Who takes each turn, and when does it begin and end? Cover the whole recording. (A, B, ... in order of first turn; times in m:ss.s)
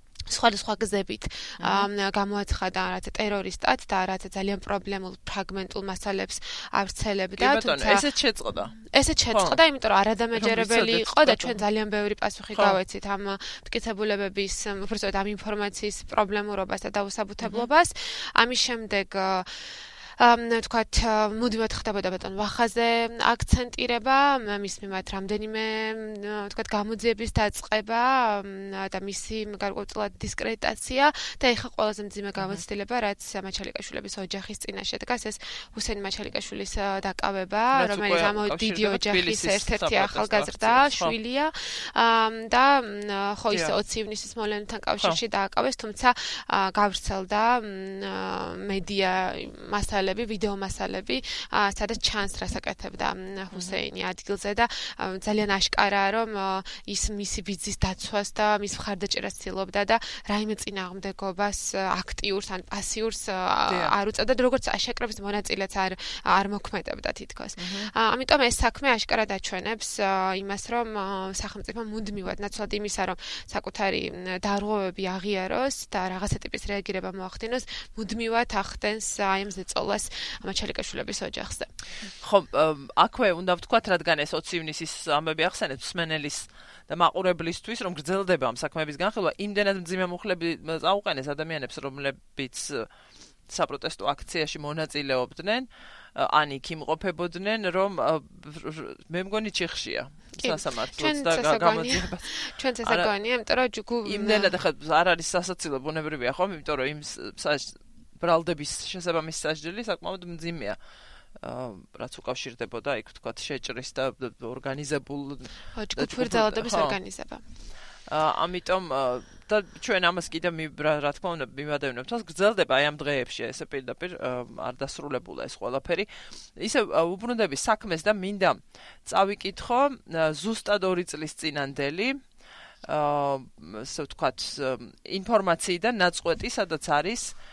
0:00.3-0:08.1 A
0:01.6-0:01.9 B
0:07.4-0:08.8 B
0:08.7-1:21.7 A
0:09.3-0:09.6 B
0:10.3-0:11.6 B
0:17.4-0:17.7 B
0:32.4-0:32.6 B
0:37.7-0:41.1 B
0:43.5-0:43.7 B
1:03.7-1:03.9 B
1:07.6-1:07.9 B
1:22.2-1:32.9 B
1:33.5-1:42.3 B
1:40.4-1:44.5 A
1:42.8-1:43.1 B
1:44.0-1:50.8 B
1:51.4-1:57.0 B
1:55.7-1:57.4 A
1:58.1-2:12.2 B
2:12.8-2:17.3 B